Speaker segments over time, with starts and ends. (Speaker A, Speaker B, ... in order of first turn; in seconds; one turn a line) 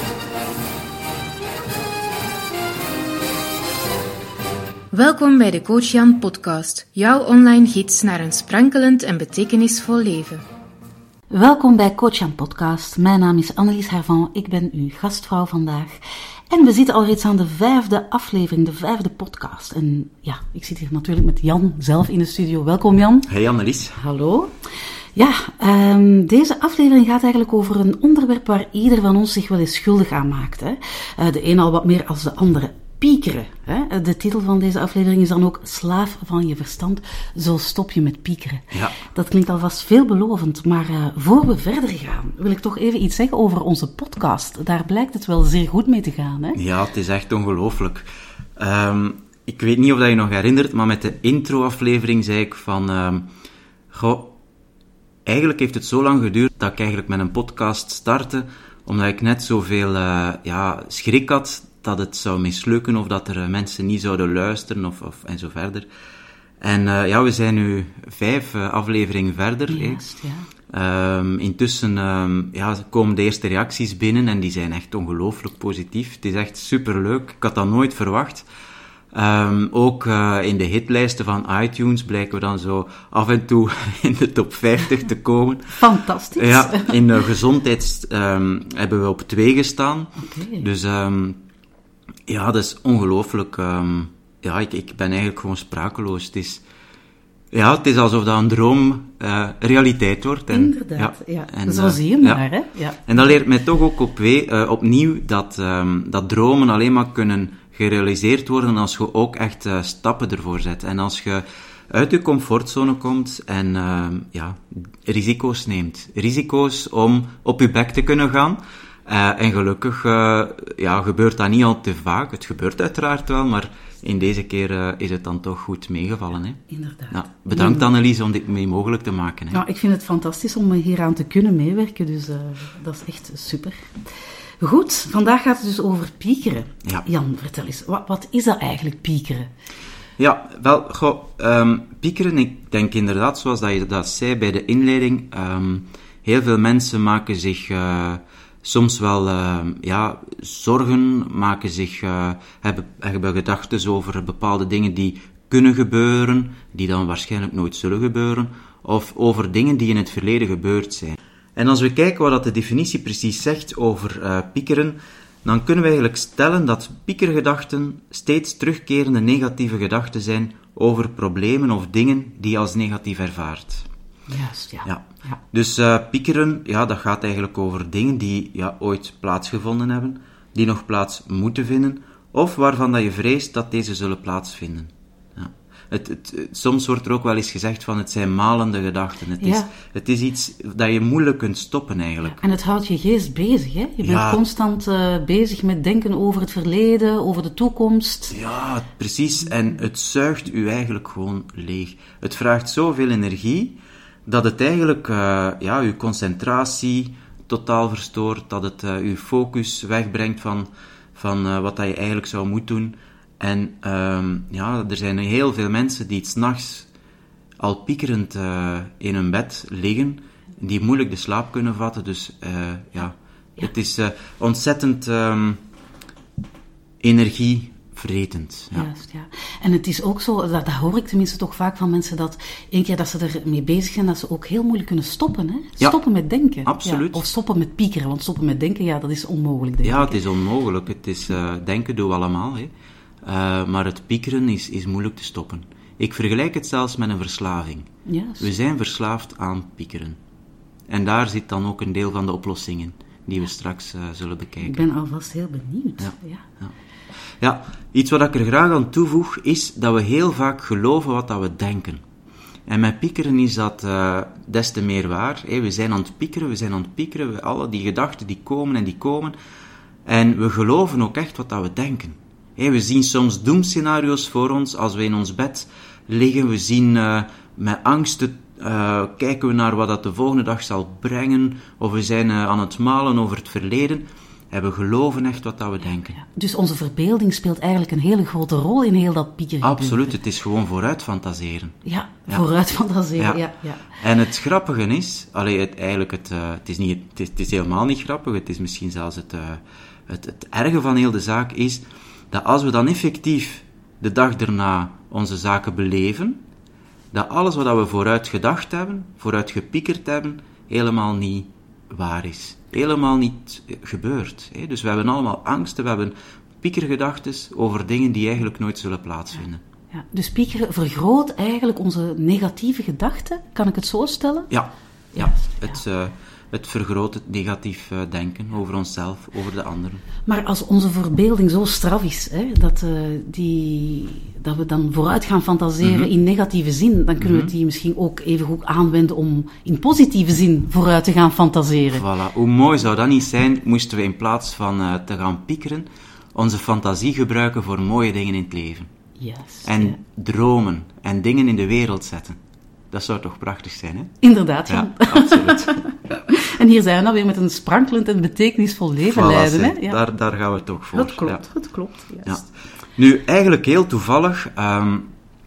Speaker A: 4.9-10.4
Speaker B: 11.3-16.0
Speaker B: 16.5-23.3
Speaker C: 23.3-24.0
Speaker B: 23.9-24.5
Speaker B: 25.1-46.6
Speaker C: 46.5-48.1
Speaker C: 48.6-53.3
Speaker C: 53.9-54.4
Speaker C: 55.3-65.9
Speaker C: 66.6-70.0
Speaker B: 69.7-70.5
Speaker C: 70.7-78.5
Speaker C: 79.1-85.8
Speaker B: 85.8-87.0
Speaker C: 86.4-91.4
Speaker B: 90.2-90.7
Speaker C: 92.3-96.6
Speaker C: 97.5-102.4
Speaker B: 100.5-103.1
Speaker C: 103.1-129.6
Speaker B: 126.7-127.8
Speaker B: 129.5-134.0
Speaker B: 134.6-139.5
Speaker C: 140.2-173.9
Speaker B: 174.3-175.4
Speaker C: 174.8-192.4
Speaker B: 189.4-189.7
Speaker B: 192.2-198.4
Speaker C: 194.0-194.4
Speaker C: 198.3-216.9
Speaker C: 217.6-225.6
Speaker C: 227.0-228.9
Speaker B: 228.7-240.2
Speaker C: 236.6-237.3
Speaker C: 239.8-242.7
Speaker C: 243.2-247.9
Speaker B: 248.1-248.5
Speaker C: 248.4-250.2
Speaker C: 250.9-254.8
Speaker B: 254.6-256.4
Speaker C: 256.0-256.7
Speaker C: 257.4-262.0
Speaker C: 262.7-269.4
Speaker C: 270.1-286.2
Speaker B: 286.2-290.1
Speaker C: 289.6-292.4
Speaker B: 291.8-293.9
Speaker C: 294.0-306.4
Speaker C: 307.1-319.6
Speaker B: 319.9-324.5
Speaker C: 324.5-330.0
Speaker B: 325.2-325.6
Speaker B: 330.3-342.1
Speaker C: 335.8-336.1
Speaker C: 337.2-337.5
Speaker C: 341.9-348.9
Speaker B: 349.2-350.0
Speaker C: 349.6-352.4
Speaker C: 352.9-354.1
Speaker B: 354.2-360.0
Speaker C: 354.7-355.8
Speaker C: 359.1-361.4
Speaker B: 360.9-362.5
Speaker C: 363.0-365.1